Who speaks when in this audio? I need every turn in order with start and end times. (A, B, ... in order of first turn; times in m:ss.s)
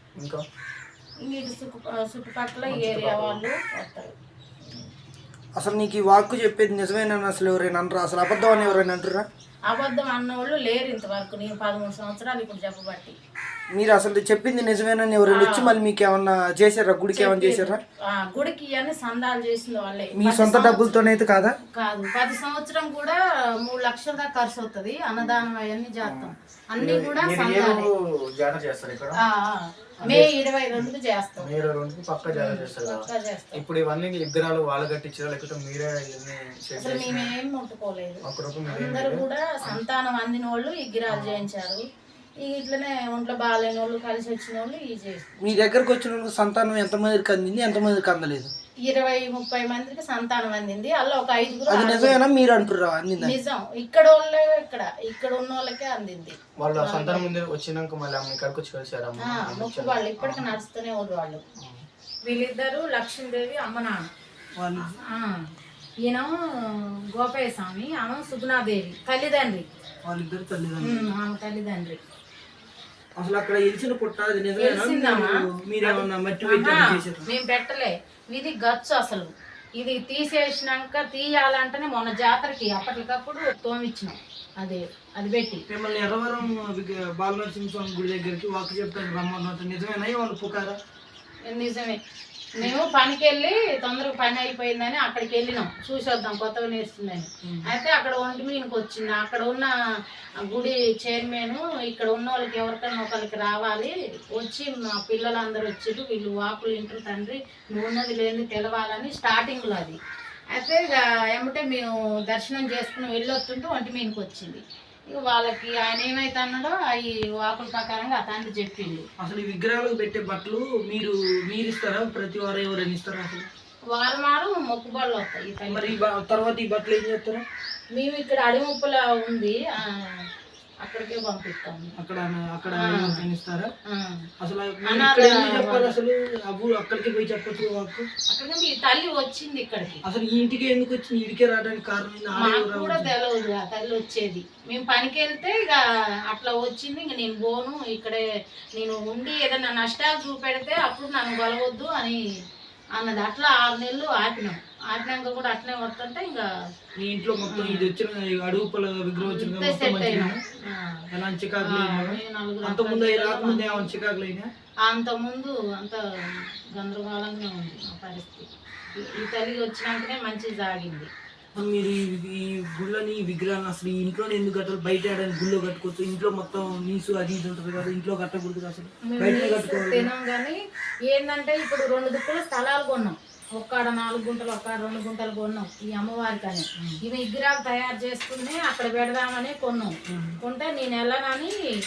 0:01.2-0:04.1 A
0:02.7-0:03.4 B
0:05.6-0:09.2 C
0:08.4-0:08.9 A
0:09.7-0:13.2 A
0:13.7-0:17.8 C
0:15.3-0:15.8 A
0:17.1-0:27.8 A
0:20.1-0:21.6 C
0:25.2-0:25.4 B
0:26.0-0:29.2 B
0:29.2-0:31.4 A
0:30.0-0:30.3 B
0:31.4-0:37.3 B
0:32.3-0:33.6 A
0:36.8-0:41.8 A
0:38.2-0:39.8 B
0:41.1-0:41.4 B
0:42.4-0:45.2 A
0:45.4-0:48.5 C
0:48.9-0:52.2 A
0:51.7-0:53.4 C
0:53.2-0:57.3 A
0:56.6-1:00.5 B
0:59.2-1:01.4 A
1:02.3-1:04.1 A
1:04.6-1:05.0 C
1:04.9-1:05.5 A
1:06.1-1:09.7 A
1:10.0-1:11.1 C
1:10.8-1:12.0 A
1:13.2-1:17.3 C
1:14.6-1:15.3 A
1:15.8-1:25.6 A
1:25.7-1:30.8 C
1:31.5-1:32.0 A
1:32.6-1:39.7 A
1:40.4-1:50.0 A
1:50.5-1:59.1 A
1:59.2-2:03.5 C
2:03.9-2:06.0 A
2:05.7-2:07.4 C
2:07.9-2:10.2 A
2:10.8-2:11.9 A
2:12.0-2:13.7 C
2:12.7-2:13.3 A
2:13.9-2:14.3 A
2:14.4-2:18.1 C
2:14.8-2:16.0 A
2:18.3-2:20.0 A
2:20.0-2:23.1 C
2:22.3-2:28.2 A
2:28.8-2:32.2 A
2:33.0-2:36.5 A
2:37.0-2:40.4 C
2:37.4-2:37.8 A
2:39.2-2:41.0 A
2:41.1-2:44.5 C
2:41.6-2:43.9 A
2:44.8-2:51.1 A
2:51.5-3:00.1 C
2:59.1-3:00.6 A
3:01.1-3:11.5 A
3:10.1-3:10.4 C